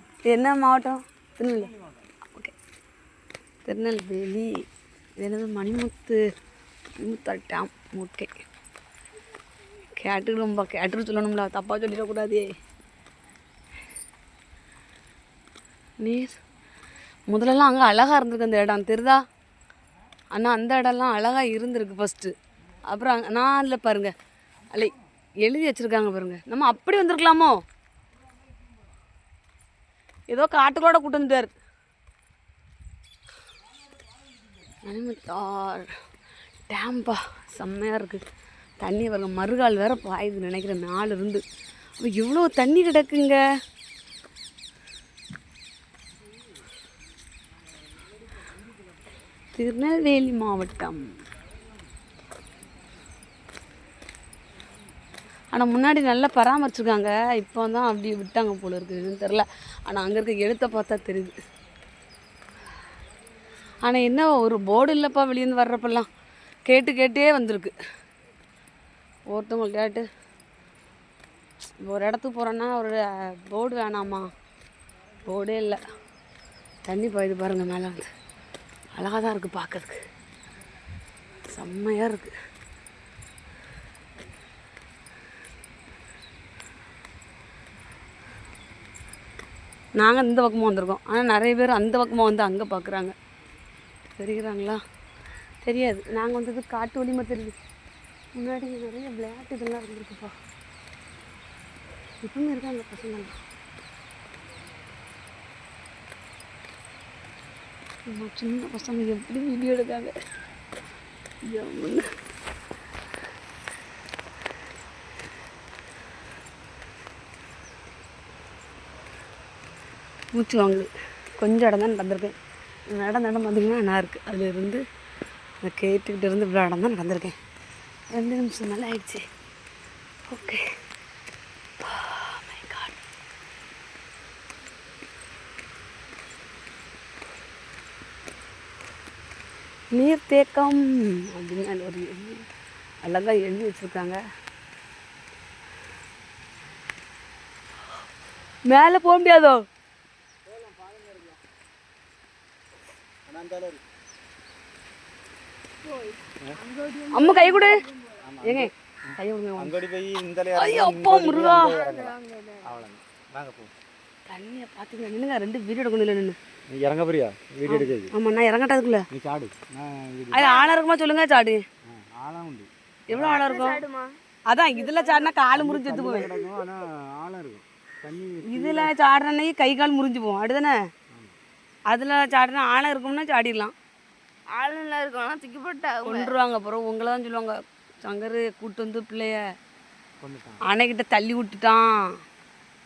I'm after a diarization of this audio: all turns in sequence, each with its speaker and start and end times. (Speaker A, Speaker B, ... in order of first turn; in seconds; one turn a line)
Speaker A: 0.3-1.7
Speaker A: 3.6-4.6
Speaker A: 5.2-6.2
Speaker A: 7.0-8.3
Speaker A: 9.9-12.5
Speaker A: 16.0-16.4
Speaker A: 17.3-19.2
Speaker A: 20.3-22.3
Speaker A: 22.9-24.1
Speaker A: 24.7-27.6
Speaker A: 30.3-31.5
Speaker A: 34.8-36.0
Speaker A: 36.7-38.2
Speaker A: 38.8-41.4
Speaker A: 42.0-43.4
Speaker A: 49.6-51.2
Speaker A: 55.5-61.4
Speaker A: 63.8-66.1
Speaker A: 66.7-67.7
Speaker A: 69.3-70.1
Speaker A: 71.8-74.3
Speaker A: 75.2-75.8
Speaker A: 76.9-78.1
Speaker A: 78.9-80.0
Speaker A: 81.5-82.3
Speaker A: 90.0-93.2
Speaker A: 94.2-94.8
Speaker A: 95.6-97.6
Speaker A: 98.3-100.3
Speaker A: 102.2-103.4
Speaker A: 108.1-110.1
Speaker A: 111.5-112.1
Speaker A: 120.3-122.3
Speaker A: 122.9-124.8
Speaker A: 125.6-127.4
Speaker A: 128.1-129.2
Speaker A: 130.3-130.7
Speaker A: 131.8-132.9
Speaker A: 139.9-142.5
Speaker A: 143.0-144.2
Speaker A: 148.7-149.6
Speaker B: 150.5-151.4
Speaker B: 153.3-153.8
Speaker C: 155.8-157.9
Speaker A: 157.1-157.8
Speaker B: 158.3-163.7
Speaker A: 158.4-159.8
Speaker A: 160.5-161.8
Speaker C: 161.6-162.8
Speaker A: 164.3-166.4
Speaker B: 166.7-168.1
Speaker A: 167.7-169.1
Speaker B: 169.1-170.5
Speaker A: 170.3-171.6
Speaker C: 170.4-170.8
Speaker B: 171.9-173.6
Speaker A: 173.1-173.8
Speaker C: 173.4-175.4
Speaker A: 174.5-176.3
Speaker B: 175.5-178.9
Speaker A: 178.4-180.8
Speaker A: 181.9-183.7
Speaker C: 184.5-186.3
Speaker A: 186.1-189.4
Speaker B: 190.2-190.6
Speaker A: 190.6-192.1